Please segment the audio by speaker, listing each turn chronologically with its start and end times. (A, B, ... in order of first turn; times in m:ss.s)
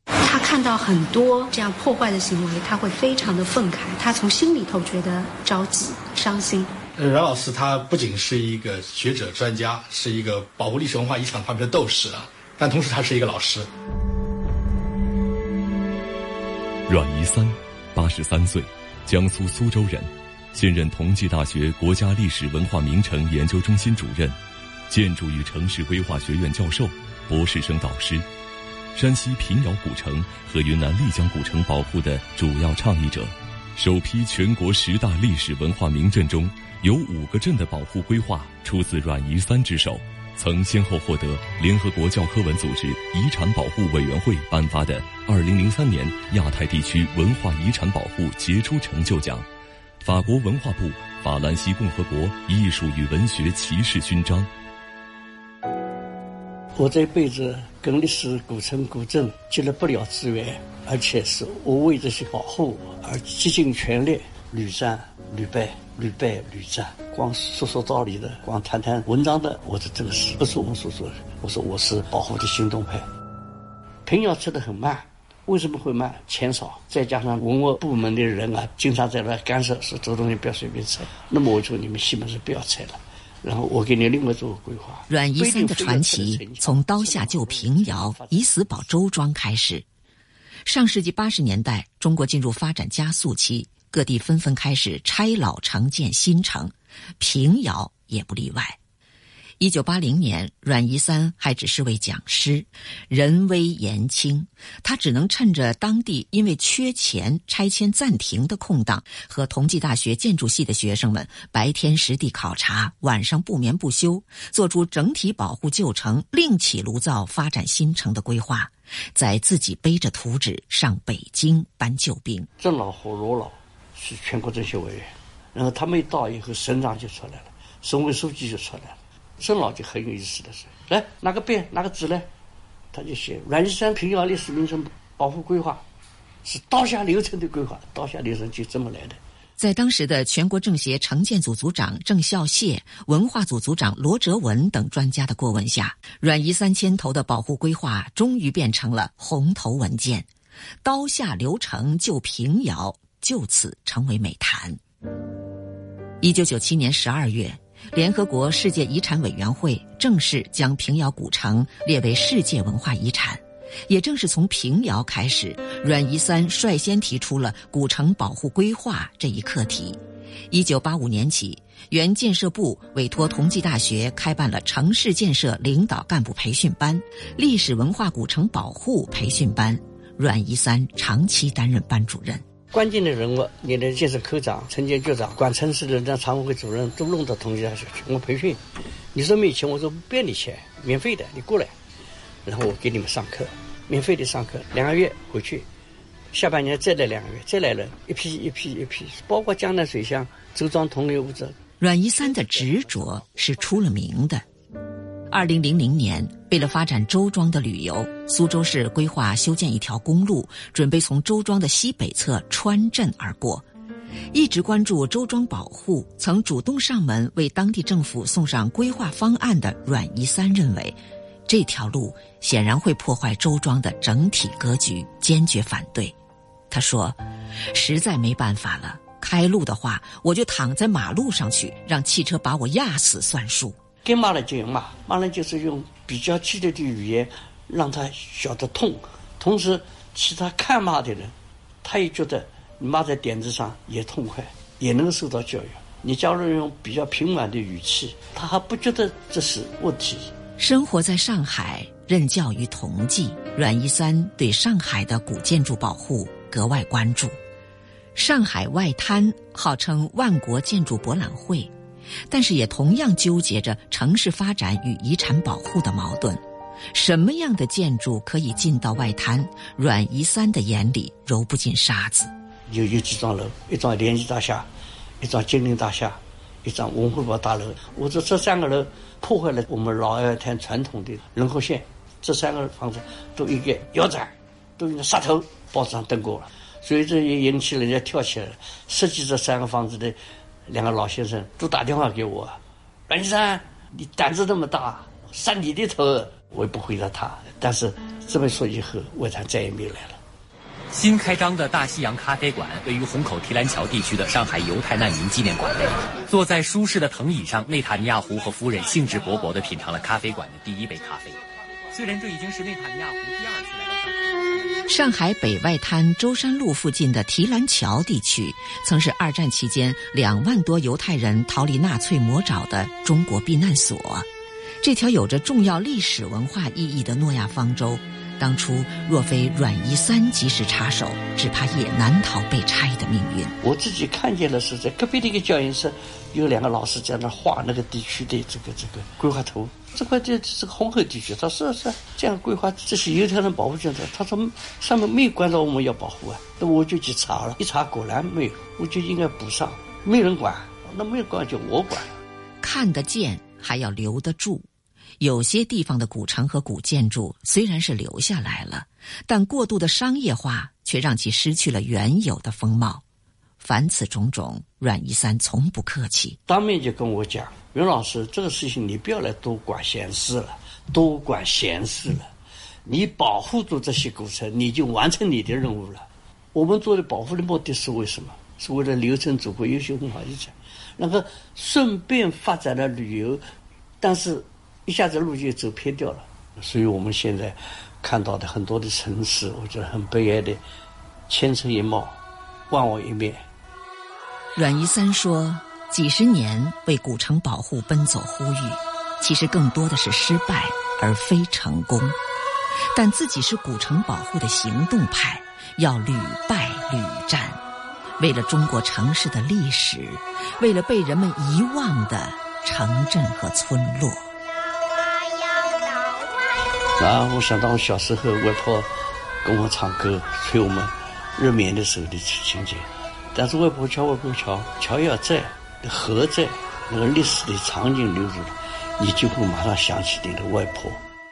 0:00.2-0:06.7 A
0:06.9-0:13.7 B
0:16.9-0:28.2 C
0:28.9-0:49.5 C
0:50.0-0:54.5 C
0:56.8-1:13.0 D
1:14.0-1:28.9 D
1:25.1-1:29.8 E
1:30.6-1:38.8 E
1:39.6-2:02.5 E
2:02.6-2:12.3 D
2:12.9-2:15.8 D
2:16.4-2:19.2 D
2:19.6-2:30.3 E
2:30.8-2:34.8 E
2:36.2-3:02.4 E
3:02.7-3:08.6 D
3:09.1-3:11.7 D
3:12.4-3:15.6 D
3:16.3-3:21.6 D
3:21.8-3:24.4 E
3:25.3-3:33.6 E
3:34.3-3:46.1 E
3:46.7-3:53.8 E
3:54.0-4:10.3 D
4:10.6-4:17.4 E
4:18.1-4:21.7 E
4:22.3-4:32.3 E
4:32.7-4:34.7 D
4:35.2-5:00.2 D
5:00.9-5:11.4 F
5:11.9-5:14.8 F
5:14.9-5:24.3 E
5:24.8-5:33.5 E
5:33.6-5:52.2 D
5:52.6-5:54.7 E
5:55.2-6:03.0 E
6:03.6-6:06.4 E
6:06.4-6:12.3 D
6:12.8-6:23.4 D
6:24.0-6:30.6 D
6:31.3-6:32.2 D
6:32.7-6:33.4 D
6:34.5-6:42.2 E
6:42.9-6:47.6 E
6:48.2-6:54.3 E
6:57.0-6:58.9 D
6:59.4-7:11.0 D